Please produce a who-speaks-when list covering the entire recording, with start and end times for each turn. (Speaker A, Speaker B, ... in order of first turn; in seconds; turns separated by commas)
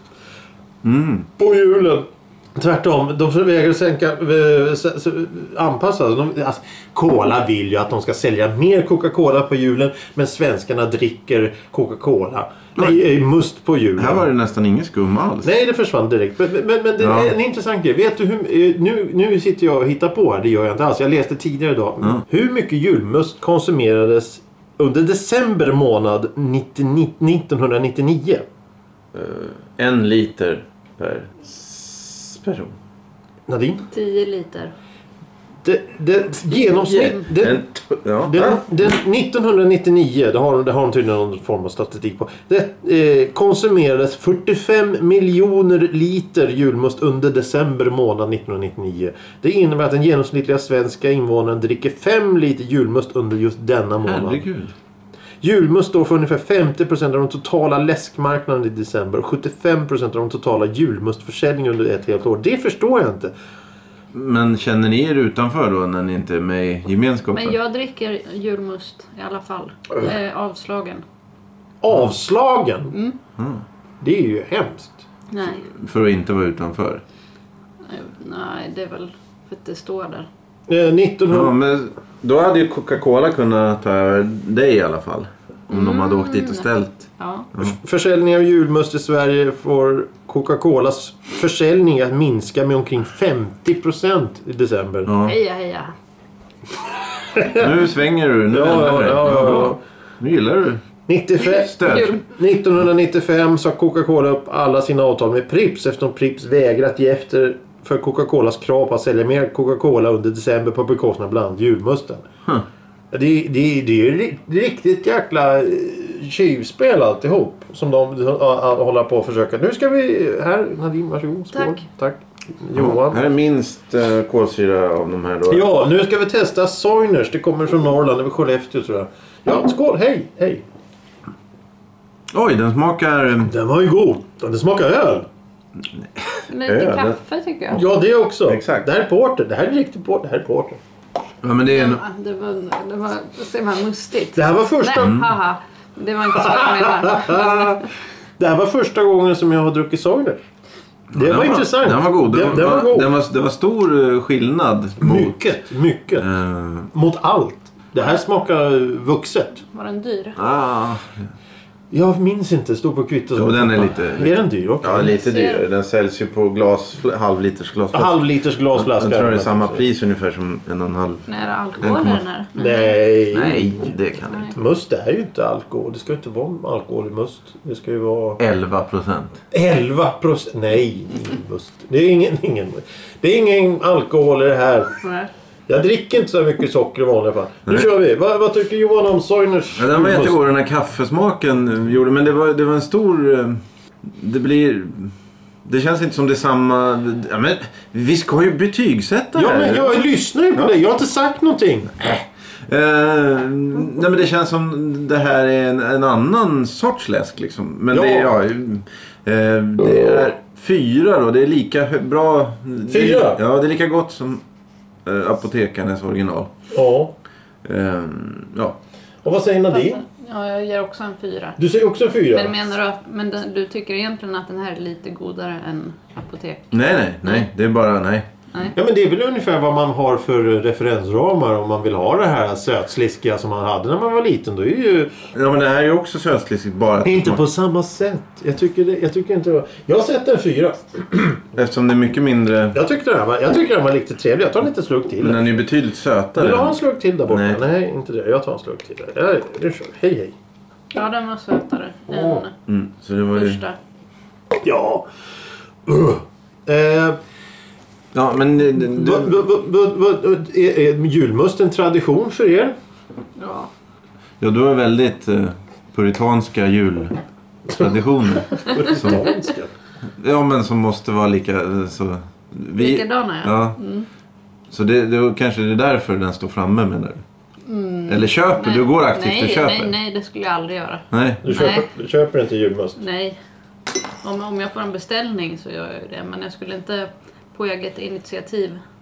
Speaker A: 0.8-1.3, Speaker B: 1.4-14.2, Speaker A: 14.0-15.5, Speaker B: 15.4-28.4, Speaker A: 17.0-17.3, Speaker A: 29.1-32.8, Speaker B: 33.5-33.9, Speaker C: 33.9-34.7, Speaker B: 35.6-37.6, Speaker A: 36.9-38.6, Speaker B: 38.2-54.5, Speaker A: 54.0-54.8, Speaker B: 55.4-63.3, Speaker A: 64.1-67.6, Speaker C: 67.3-71.0, Speaker B: 71.8-73.0, Speaker A: 73.4-73.6, Speaker B: 74.0-75.0, Speaker C: 75.3-75.6, Speaker A: 75.6-77.0, Speaker C: 77.9-80.3, Speaker B: 80.7-81.5, Speaker A: 81.3-87.8, Speaker C: 85.7-86.7, Speaker C: 87.2-87.5, Speaker B: 87.6-95.1, Speaker A: 95.1-95.4, Speaker C: 95.2-95.9, Speaker B: 97.2-97.7, Speaker A: 97.5-100.8, Speaker B: 98.5-99.8, Speaker B: 101.1-112.3, Speaker C: 101.4-102.2, Speaker A: 101.5-102.2, Speaker B: 113.1-123.3, Speaker A: 122.8-125.7, Speaker B: 125.5-130.6, Speaker A: 132.3-133.5, Speaker B: 133.4-135.3, Speaker A: 135.9-137.2, Speaker C: 136.5-137.8, Speaker B: 137.7-140.8, Speaker A: 138.5-138.9, Speaker A: 141.4-142.0, Speaker C: 141.7-147.9, Speaker B: 144.3-145.2, Speaker A: 145.0-145.3, Speaker B: 146.3-147.9, Speaker B: 148.4-150.4, Speaker A: 151.1-155.5, Speaker B: 151.1-153.1, Speaker B: 155.0-156.3, Speaker A: 156.2-156.9, Speaker B: 156.9-159.6, Speaker C: 159.7-160.4, Speaker A: 160.4-161.3, Speaker B: 161.9-165.2, Speaker A: 163.4-171.3, Speaker C: 165.1-165.6, Speaker B: 167.9-169.8, Speaker C: 171.3-173.0, Speaker A: 171.8-172.2, Speaker B: 172.6-173.9, Speaker A: 173.3-174.6, Speaker B: 174.5-178.4, Speaker A: 178.4-179.4, Speaker B: 179.5-184.9, Speaker C: 185.0-185.3, Speaker B: 185.7-190.4, Speaker A: 189.8-200.0, Speaker B: 199.3-201.9, Speaker A: 202.0-214.4, Speaker B: 207.9-208.4, Speaker B: 209.9-210.2, Speaker B: 212.9-213.4, Speaker A: 215.1-216.5, Speaker B: 216.7-217.2, Speaker A: 217.6-218.8, Speaker B: 219.2-220.0, Speaker C: 219.7-221.6, Speaker B: 221.6-222.6, Speaker C: 222.3-227.5, Speaker A: 226.7-228.3, Speaker B: 228.8-235.2, Speaker A: 235.3-237.4, Speaker B: 237.0-241.4, Speaker A: 241.6-242.8, Speaker B: 242.7-245.6, Speaker A: 245.2-247.6, Speaker B: 246.4-250.3, Speaker C: 250.9-252.5, Speaker B: 252.1-252.4, Speaker A: 252.7-253.6, Speaker C: 253.3-253.8, Speaker B: 254.6-255.1, Speaker B: 255.9-257.2, Speaker A: 258.1-259.4, Speaker B: 258.8-262.8, Speaker C: 263.4-263.7, Speaker A: 264.4-267.2, Speaker A: 267.7-269.3, Speaker B: 268.5-269.7, Speaker A: 270.2-273.8, Speaker C: 272.8-274.1, Speaker A: 274.7-277.2, Speaker C: 277.7-281.9, Speaker A: 278.1-279.9, Speaker A: 281.1-281.6, Speaker B: 281.4-283.0, Speaker C: 283.0-283.4, Speaker C: 284.2-288.8